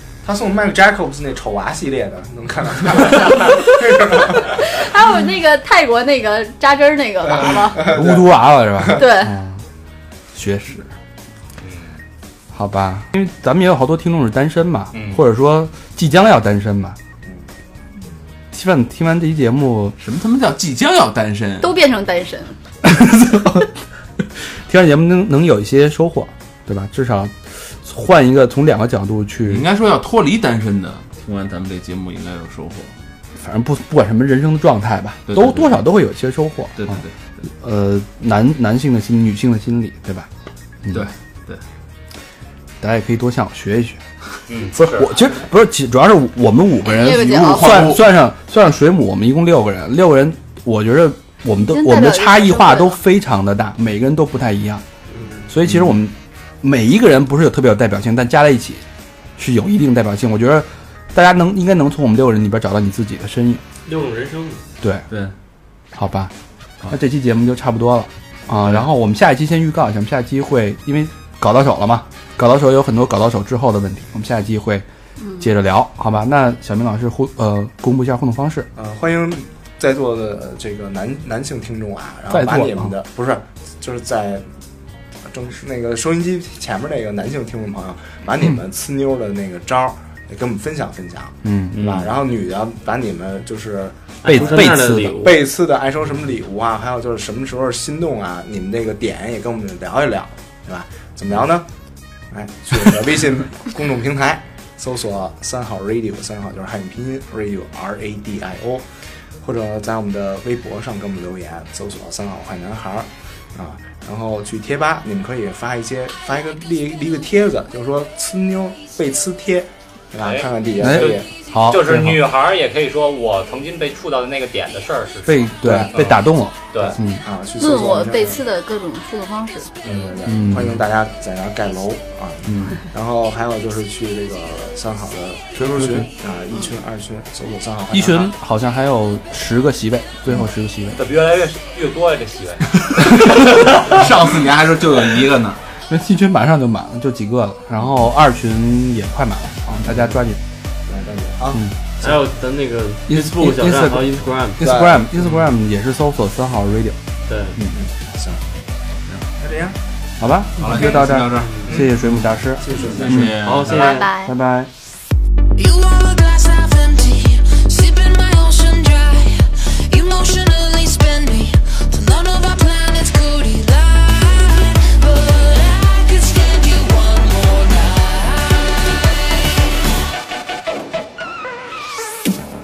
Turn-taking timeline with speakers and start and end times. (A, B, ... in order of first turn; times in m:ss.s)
0:00.2-0:04.8 A
0:04.3-0:07.8 B
0:07.5-0:08.3 A
0:07.9-0:09.6 C
0:08.9-0:09.4 B
0:10.3-0:10.9 C
0:11.6-0:11.9 D
0:12.5-0:17.0 C
0:14.9-0:15.2 D
0:18.5-0:19.9 C
0:20.0-0:21.8 E
0:21.6-0:22.5 B
0:22.8-0:23.7 C
0:24.5-0:29.6 C
0:29.5-0:32.9 E
0:33.4-0:37.0 C
0:35.3-0:35.8 E
0:36.8-0:37.1 E
0:37.6-0:40.3 C
0:40.9-0:41.6 E
0:42.8-0:44.0 C
0:44.5-0:45.3 D
0:44.7-0:54.8 C
0:46.8-0:48.0 B
0:47.2-0:48.0 E
0:51.6-0:53.0 B
0:55.1-0:55.5 F
0:55.5-0:58.8 C
0:59.4-1:03.6 C
1:03.8-1:04.6 F
1:05.9-1:06.3 C
1:06.9-1:14.8 C
1:15.2-1:15.5 B
1:15.4-1:18.7 C
1:18.7-1:24.4 A
1:22.3-1:22.9 C
1:25.3-1:41.6 A
1:31.4-1:32.1 C
1:34.2-1:35.4 F
1:34.2-1:35.3 C
1:42.3-1:48.8 A
1:49.4-2:01.2 A
2:00.2-2:06.2 D
2:00.8-2:02.2 C
2:05.2-2:07.2 C
2:05.6-2:05.9 A
2:06.7-2:07.0 D
2:06.8-2:08.4 A
2:07.6-2:09.7 B
2:09.8-2:10.1 D
2:09.8-2:18.3 A
2:10.2-2:10.8 C
2:12.4-2:12.8 C
2:15.6-2:16.0 E
2:15.6-2:16.1 C
2:17.9-2:21.0 C
2:21.0-2:22.9 D
2:23.0-2:25.6 E
2:23.1-2:23.9 C
2:25.9-2:30.4 C
2:30.9-2:31.6 A
2:32.0-2:34.6 F
2:33.1-2:37.0 C
2:34.6-2:35.3 A
2:37.3-2:37.6 F
2:37.7-2:38.4 A
2:39.4-2:39.8 A
2:40.2-2:43.6 C
2:40.6-2:43.8 E
2:40.7-2:42.0 A
2:41.4-2:41.7 F
2:42.6-2:43.3 A
2:43.4-2:44.1 F
2:43.6-2:44.3 B
2:44.1-2:44.7 C
2:45.6-2:59.9 G